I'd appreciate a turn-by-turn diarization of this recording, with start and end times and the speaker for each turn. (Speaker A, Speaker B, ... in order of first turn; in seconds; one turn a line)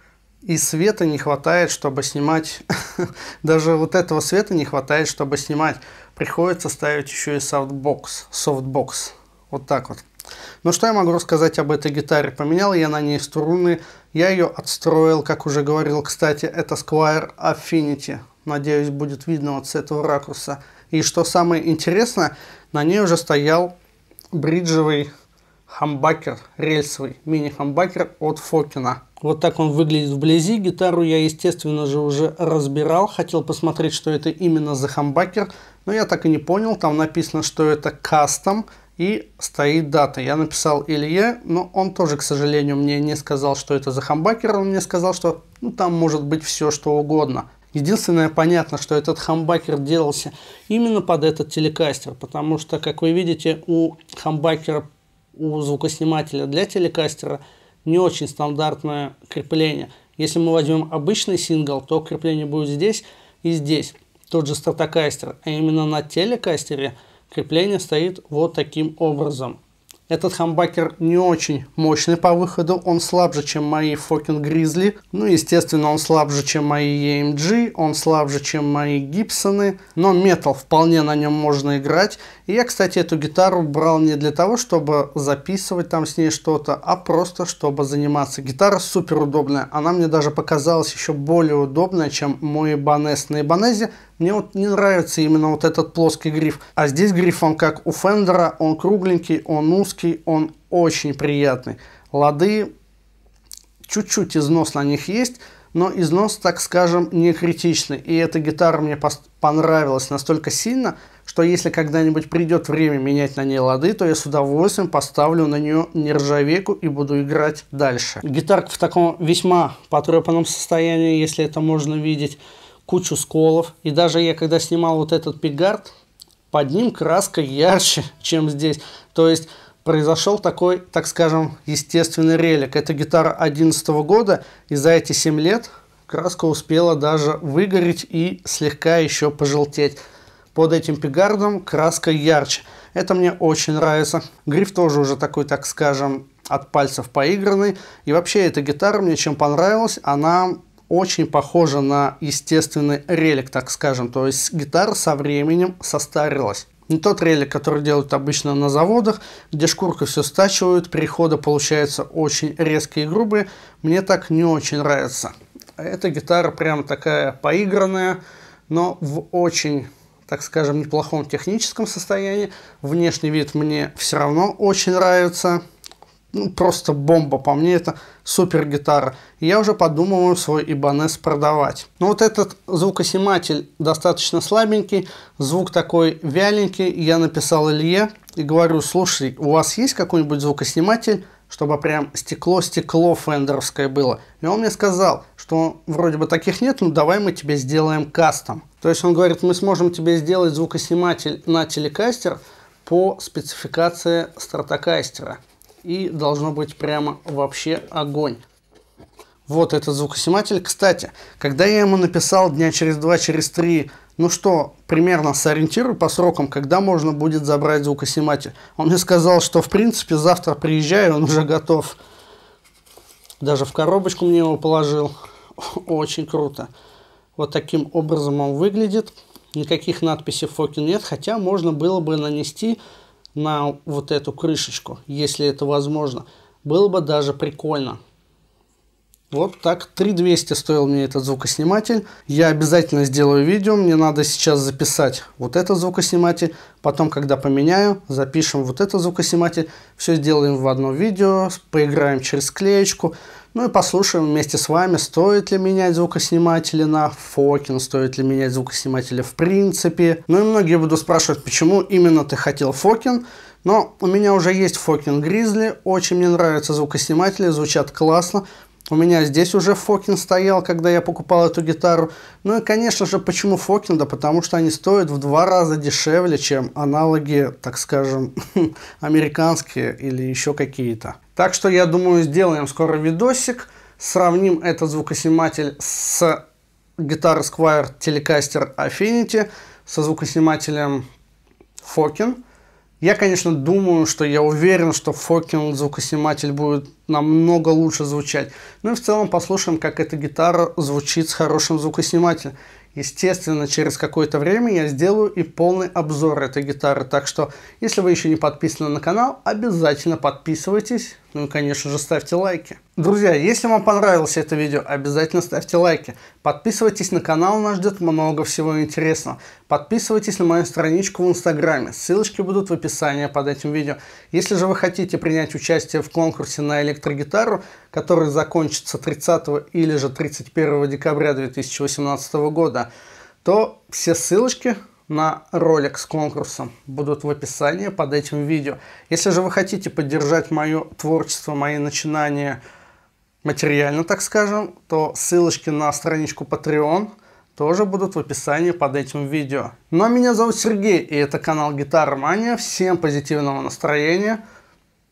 Speaker A: 0.4-10.0
Speaker A: 10.6-23.7
Speaker A: 24.3-25.1
Speaker A: 25.7-102.7
Speaker A: 103.8-125.9
Speaker A: 126.5-140.0
Speaker A: 140.6-175.6
Speaker A: 176.3-208.4
Speaker A: 209.5-222.0
Speaker A: 223.4-226.7
Speaker A: 227.4-232.8
Speaker A: 233.3-238.0
Speaker A: 239.3-286.4
Speaker A: 287.0-291.0
Speaker A: 291.8-292.4
Speaker A: 293.0-332.9
Speaker A: 333.4-342.6
Speaker A: 343.4-354.4